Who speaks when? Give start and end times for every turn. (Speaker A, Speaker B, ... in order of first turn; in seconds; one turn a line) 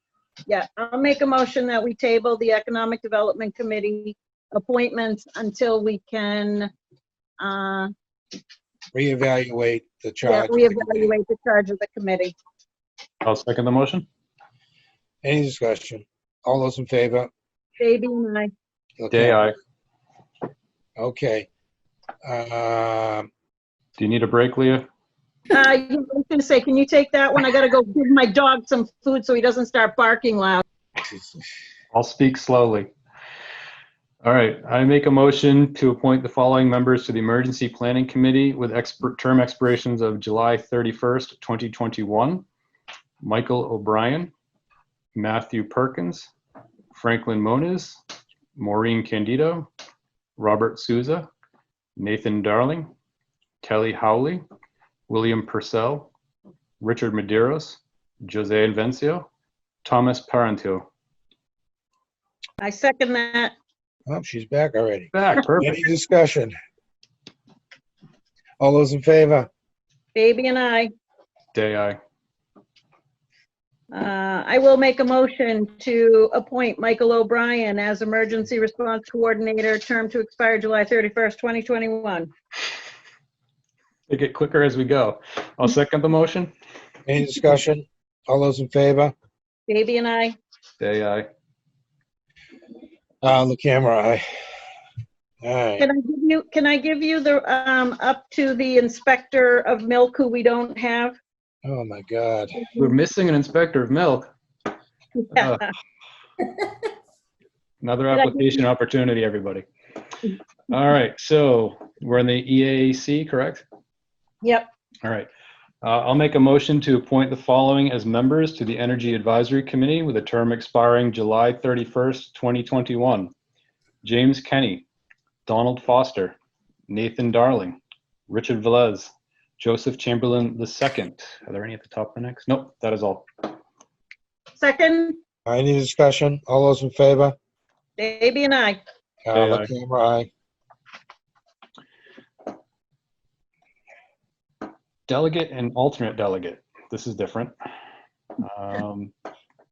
Speaker A: 0.5-6.7
Speaker A: 7.4-7.9
Speaker B: 8.9-11.1
Speaker A: 10.2-12.3
Speaker C: 13.2-14.1
Speaker B: 15.2-17.3
Speaker A: 17.8-18.5
Speaker B: 19.0-19.5
Speaker C: 19.1-19.5
Speaker B: 21.0-21.5
Speaker B: 22.2-23.3
Speaker C: 24.0-24.9
Speaker A: 25.5-30.6
Speaker B: 31.0-31.4
Speaker C: 31.9-32.9
Speaker C: 34.2-42.4
Speaker C: 43.2-44.3
Speaker C: 45.1-46.3
Speaker C: 46.9-48.0
Speaker C: 48.5-49.7
Speaker C: 50.4-51.3
Speaker C: 52.0-52.9
Speaker C: 53.6-54.4
Speaker C: 55.1-56.1
Speaker C: 56.8-59.3
Speaker C: 59.8-60.8
Speaker A: 62.6-63.5
Speaker B: 64.1-66.5
Speaker C: 65.1-65.8
Speaker B: 68.6-69.5
Speaker A: 70.1-70.9
Speaker C: 71.5-72.0
Speaker A: 73.9-82.3
Speaker C: 84.1-86.5
Speaker B: 87.0-89.1
Speaker A: 89.7-90.4
Speaker C: 90.8-91.3
Speaker B: 93.2-94.2
Speaker B: 95.4-95.9
Speaker A: 95.8-101.2
Speaker B: 101.6-102.6
Speaker C: 102.7-104.3
Speaker A: 105.3-105.5
Speaker C: 105.3-105.7
Speaker C: 107.8-109.7
Speaker A: 108.1-108.5
Speaker C: 110.7-113.6
Speaker A: 114.4-114.7
Speaker C: 115.0-115.3
Speaker C: 115.8-123.3
Speaker C: 124.0-124.8
Speaker C: 125.5-126.3
Speaker C: 126.9-133.5
Speaker A: 134.6-135.2
Speaker B: 135.4-137.3
Speaker A: 138.0-138.8
Speaker B: 139.2-140.3
Speaker C: 139.3-139.7
Speaker C: 145.1-147.5
Speaker C: 148.4-149.1